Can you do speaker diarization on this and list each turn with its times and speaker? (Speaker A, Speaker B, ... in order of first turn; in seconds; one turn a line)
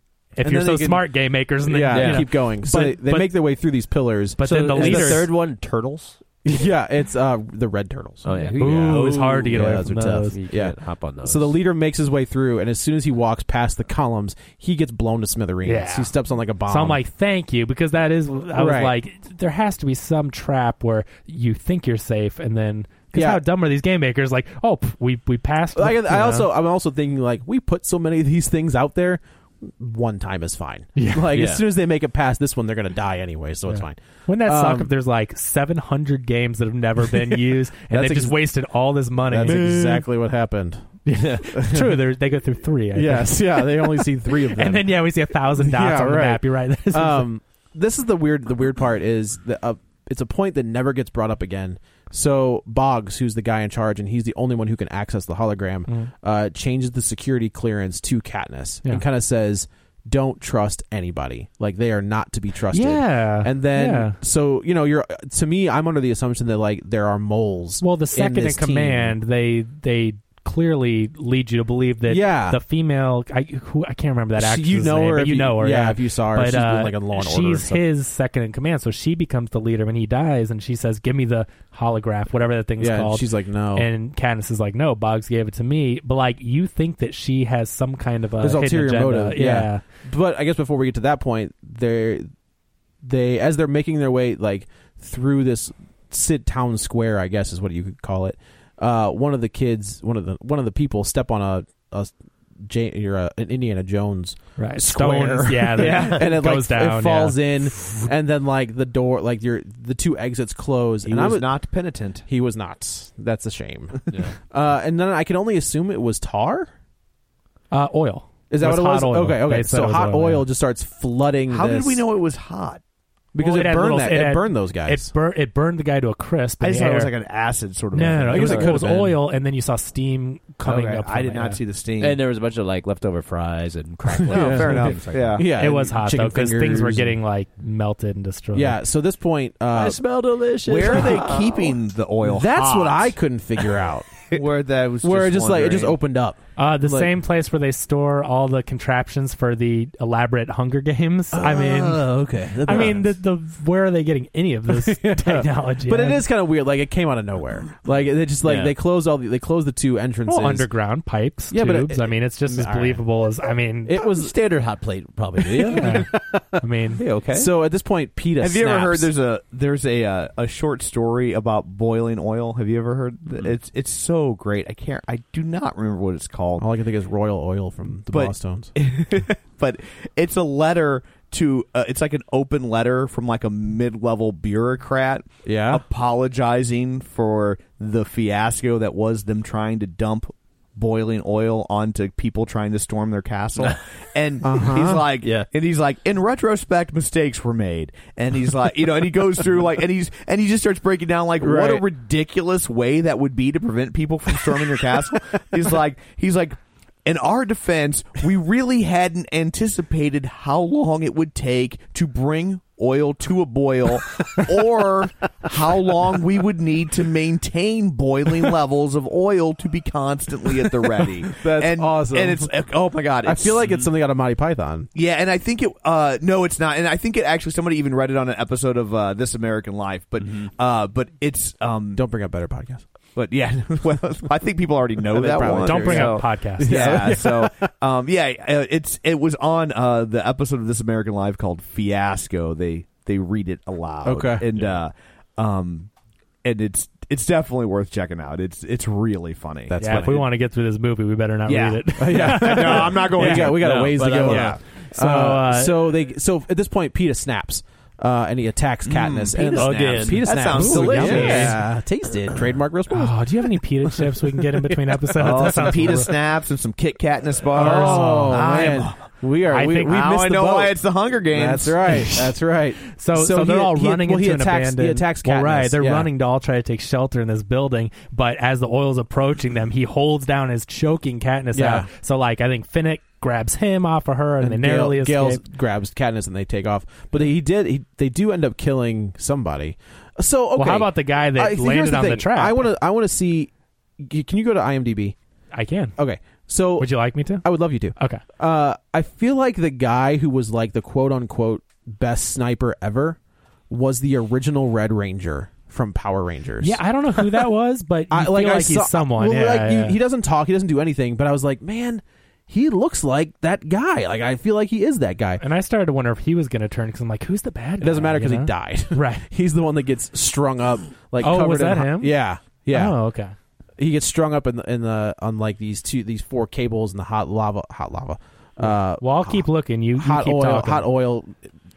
Speaker A: 0.3-3.4
Speaker B: 0.4-1.1
Speaker B: 1.6-5.3
Speaker C: 1.9-2.2
Speaker A: 4.4-5.3
Speaker C: 4.5-6.2
Speaker B: 6.5-17.0
Speaker C: 8.2-11.5
Speaker A: 8.4-10.4
Speaker A: 15.6-16.1
Speaker A: 16.6-26.5
Speaker B: 18.5-18.9
Speaker B: 23.1-23.4
Speaker B: 25.8-34.9
Speaker A: 31.0-31.4
Speaker C: 31.3-31.6
Speaker A: 33.7-39.8
Speaker B: 37.9-38.6
Speaker B: 39.3-40.9
Speaker C: 39.5-39.8
Speaker A: 41.1-47.3
Speaker B: 41.5-42.0
Speaker B: 42.9-69.2
Speaker A: 62.7-64.2
Speaker A: 67.8-89.8
Speaker B: 72.1-72.6
Speaker B: 74.4-77.8
Speaker B: 82.8-83.9
Speaker B: 88.4-92.3
Speaker B: 93.0-111.6
Speaker A: 104.6-107.4
Speaker D: 105.8-106.2
Speaker D: 111.0-112.3
Speaker B: 112.3-116.7
Speaker A: 117.7-120.5
Speaker B: 118.5-122.0
Speaker D: 121.5-122.8
Speaker B: 123.3-125.1
Speaker A: 123.4-127.1
Speaker D: 126.6-128.7
Speaker A: 127.9-131.6
Speaker B: 128.3-129.2
Speaker C: 128.4-128.7
Speaker D: 130.7-132.2
Speaker C: 132.0-135.4
Speaker B: 134.2-137.2
Speaker D: 134.3-135.4
Speaker A: 135.6-138.8
Speaker B: 138.5-140.0
Speaker C: 139.7-141.8
Speaker D: 140.7-143.2
Speaker B: 142.2-144.2
Speaker D: 144.3-146.0
Speaker B: 145.0-147.2
Speaker A: 146.6-152.1
Speaker B: 151.3-153.1
Speaker A: 152.7-156.2
Speaker B: 154.7-160.7
Speaker C: 158.4-158.8
Speaker A: 160.3-164.0
Speaker B: 161.5-163.0
Speaker B: 163.9-164.3
Speaker C: 164.0-166.1
Speaker B: 165.4-166.6
Speaker A: 165.7-166.1
Speaker A: 166.6-167.0
Speaker C: 167.0-167.5
Speaker B: 167.3-169.1
Speaker D: 168.4-176.7
Speaker B: 176.6-178.7
Speaker D: 178.1-223.8
Speaker B: 185.4-185.8
Speaker B: 194.4-195.0
Speaker C: 195.2-195.5
Speaker B: 201.4-201.9
Speaker B: 221.3-222.5
Speaker B: 223.2-224.9
Speaker D: 224.9-232.0
Speaker B: 231.9-232.8
Speaker D: 233.2-245.9
Speaker B: 235.1-237.6
Speaker A: 235.6-236.8
Speaker C: 235.8-236.3
Speaker B: 244.0-244.5
Speaker D: 246.4-250.2
Speaker B: 249.7-250.2
Speaker A: 249.8-253.5
Speaker D: 251.5-254.6
Speaker B: 252.0-263.3
Speaker C: 253.6-254.6
Speaker A: 254.9-255.9
Speaker D: 258.9-261.6
Speaker C: 259.4-261.5
Speaker A: 260.6-261.6
Speaker A: 262.9-266.1
Speaker D: 265.2-269.0
Speaker B: 265.3-265.7
Speaker B: 267.5-276.1
Speaker A: 267.6-268.8
Speaker A: 269.5-270.0
Speaker D: 269.9-272.1
Speaker A: 272.9-285.4
Speaker B: 281.5-281.9
Speaker B: 284.4-295.2
Speaker A: 290.6-292.7
Speaker A: 295.5-296.0
Speaker B: 296.0-303.2
Speaker A: 296.8-297.4
Speaker A: 297.9-298.2
Speaker B: 303.7-307.4
Speaker A: 306.6-310.0
Speaker B: 308.1-315.4
Speaker A: 315.4-319.2
Speaker B: 317.8-323.0
Speaker A: 321.2-322.1
Speaker A: 322.7-323.3
Speaker B: 323.8-329.4
Speaker A: 329.0-330.9
Speaker B: 330.0-331.4